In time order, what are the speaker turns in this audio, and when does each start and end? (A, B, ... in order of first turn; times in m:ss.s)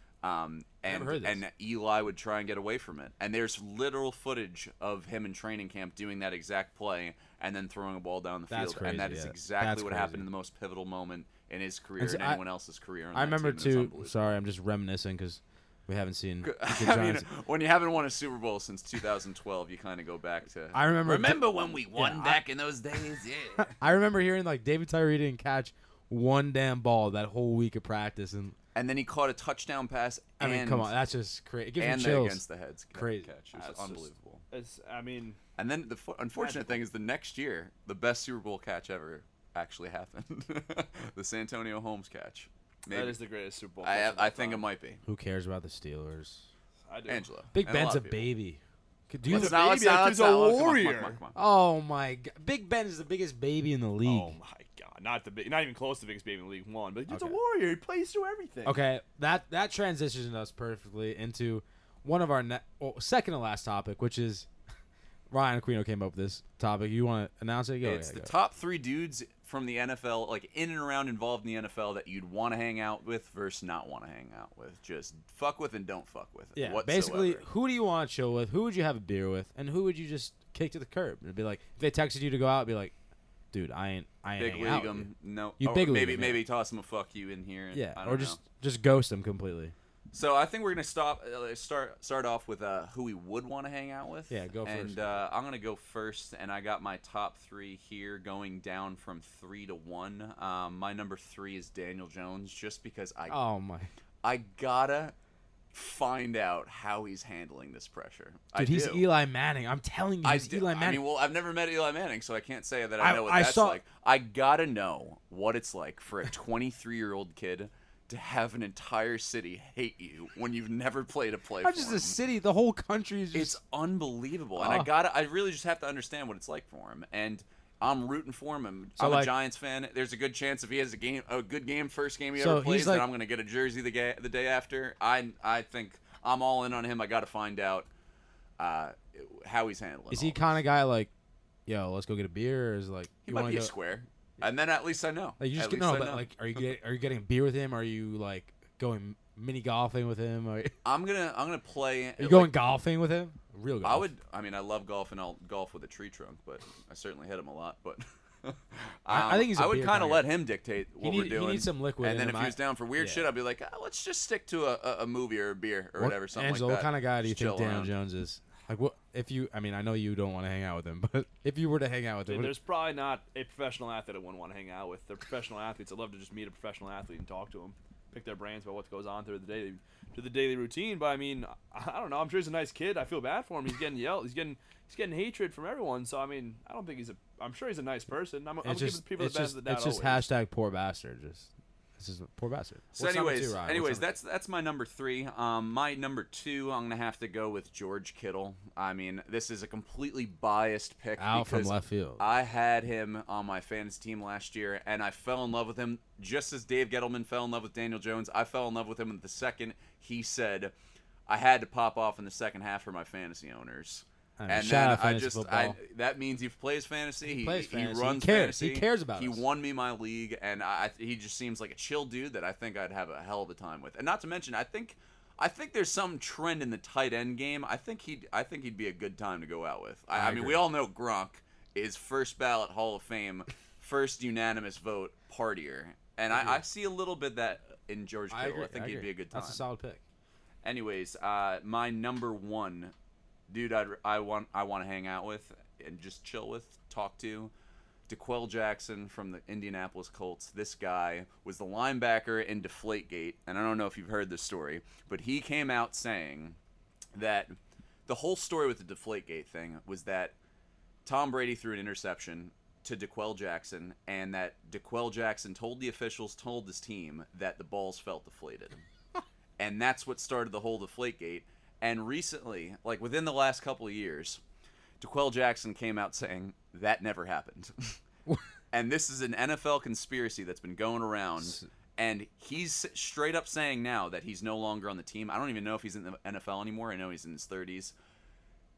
0:00.2-0:14.4 A
0:00.8-0:01.4 B
0:08.5-0:10.3 B
0:12.0-0:12.4 B
0:13.1-0:17.3 B
0:16.4-0:23.8 A
0:20.7-0:22.4 B
0:23.8-0:28.6 B
0:28.8-0:30.9 A
0:30.4-0:32.4 B
0:31.8-0:34.4 A
0:32.9-0:33.3 B
0:33.5-0:35.4 C
0:35.6-0:43.2 A
0:36.3-0:36.8 C
0:42.9-0:44.6 C
0:43.8-0:45.0 A
0:45.1-0:46.4 B
0:46.9-0:47.3 C
0:47.1-0:48.2 A
0:47.5-0:49.6 B
0:49.3-0:51.2 C
0:49.3-0:51.4 A
0:51.4-0:54.4 B
0:54.0-0:58.8 C
0:57.1-0:57.4 B
0:58.6-1:04.5 B
1:05.3-1:08.3 B
1:07.8-1:17.4 A
1:16.6-1:22.9 B
1:23.5-1:26.4 B
1:24.4-1:28.4 A
1:27.7-1:29.7 B
1:30.1-1:43.4 A
1:34.3-1:35.2 B
1:43.3-1:43.9 B
1:44.2-1:45.2 A
1:45.7-1:49.0 A
1:48.6-1:51.0 B
1:50.2-2:02.2 A
1:53.0-1:53.8 B
2:01.6-2:03.6 B
2:03.3-2:17.9 A
2:04.6-2:04.9 B
2:09.0-2:09.3 B
2:12.4-2:13.1 B
2:18.6-2:20.6 A
2:20.1-2:21.1 B
2:21.7-2:23.7 B
2:23.2-2:26.3 A
2:25.4-2:30.7 B
2:30.8-2:32.5 A
2:32.2-2:34.1 B
2:33.8-2:47.9 A
2:39.1-2:40.3 B
2:41.0-2:43.3 B
2:46.0-2:52.6 B
2:52.3-3:10.3 C
3:08.6-3:14.1 B
3:13.0-3:30.7 A
3:21.2-3:22.2 B
3:31.3-3:59.6 A
3:34.4-3:35.8 B
3:37.3-3:39.4 B
3:50.1-3:50.6 B
3:56.3-3:56.6 B
3:58.3-4:00.0 B
4:00.6-4:02.9 A
4:03.5-4:07.5 A
4:08.1-4:16.6 A
4:17.2-4:17.6 A
4:18.1-4:20.4 A
4:21.0-4:28.8 A
4:29.6-4:34.4 A
4:35.0-4:38.0 A
4:38.7-4:48.0 A
4:41.4-4:41.7 B